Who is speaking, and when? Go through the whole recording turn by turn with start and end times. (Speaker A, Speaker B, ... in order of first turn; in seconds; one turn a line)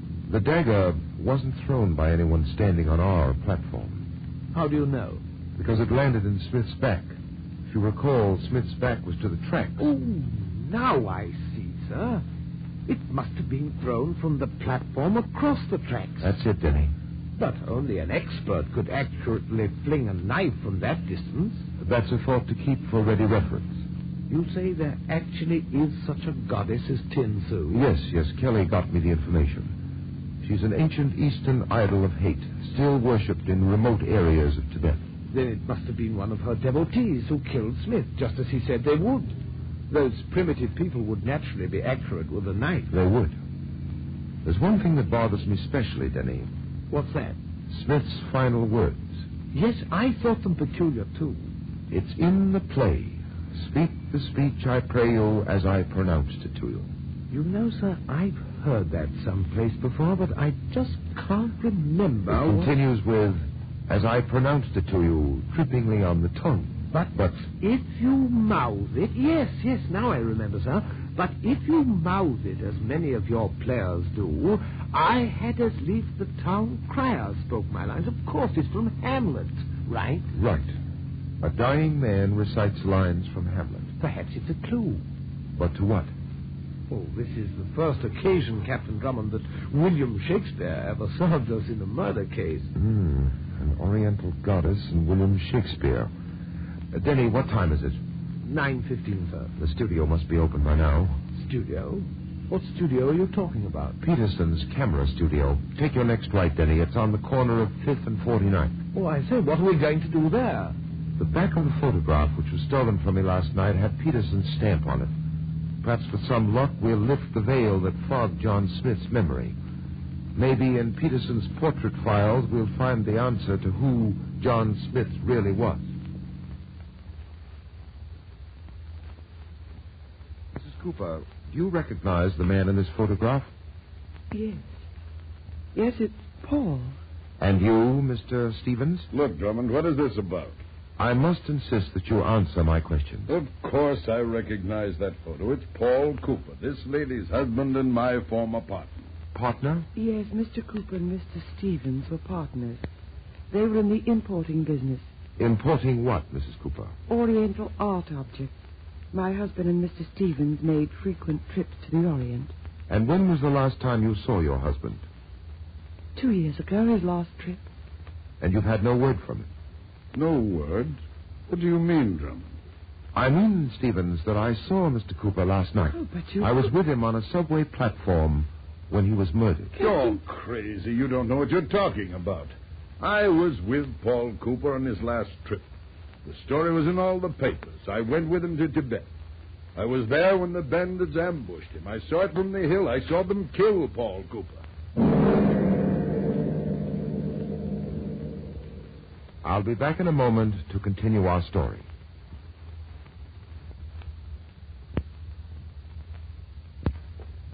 Speaker A: 0.3-4.1
Speaker B: 4.5-5.2
Speaker A: 5.6-7.2
Speaker A: 7.7-9.9
Speaker B: 9.8-12.2
Speaker B: 12.9-16.3
Speaker A: 16.2-16.9
Speaker B: 17.4-21.7
Speaker A: 21.8-23.8
Speaker B: 24.3-27.9
Speaker A: 27.7-29.7
Speaker A: 30.4-35.0
Speaker B: 35.3-39.4
Speaker B: 39.9-42.9
Speaker A: 42.9-43.4
Speaker A: 44.5-46.5
Speaker B: 46.9-47.4
Speaker A: 47.7-49.2
Speaker B: 49.5-51.5
Speaker A: 51.9-56.9
Speaker B: 57.3-62.7
Speaker A: 62.3-66.8
Speaker B: 66.9-80.3
Speaker A: 80.3-80.7
Speaker A: 81.4-83.9
Speaker B: 84.0-85.0
Speaker A: 85.6-86.1
Speaker B: 86.9-92.7
Speaker A: 92.8-96.1
Speaker A: 96.9-98.0
Speaker B: 98.4-99.5
Speaker A: 99.6-101.2
Speaker B: 101.3-104.0
Speaker A: 104.0-108.8
Speaker B: 108.9-110.8
Speaker A: 111.2-115.1
Speaker A: 115.8-119.6
Speaker A: 120.3-125.8
Speaker A: 130.5-133.5
Speaker C: 134.3-134.7
Speaker C: 135.8-137.0
Speaker A: 137.4-139.1
Speaker D: 139.1-140.6
Speaker A: 141.0-143.3
Speaker D: 143.3-149.0
Speaker A: 149.3-149.9
Speaker C: 150.0-152.8
Speaker C: 153.5-155.1
Speaker A: 155.4-157.0
Speaker C: 157.1-158.5
Speaker C: 159.1-162.5
Speaker A: 162.9-165.1
Speaker C: 166.2-167.6
Speaker A: 168.4-169.5
Speaker D: 170.2-172.5
Speaker A: 173.1-179.8
Speaker C: 175.9-176.7
Speaker C: 179.8-180.2
Speaker D: 179.8-185.7
Speaker D: 186.2-189.1
Speaker D: 189.8-194.6
Speaker A: 199.4-201.9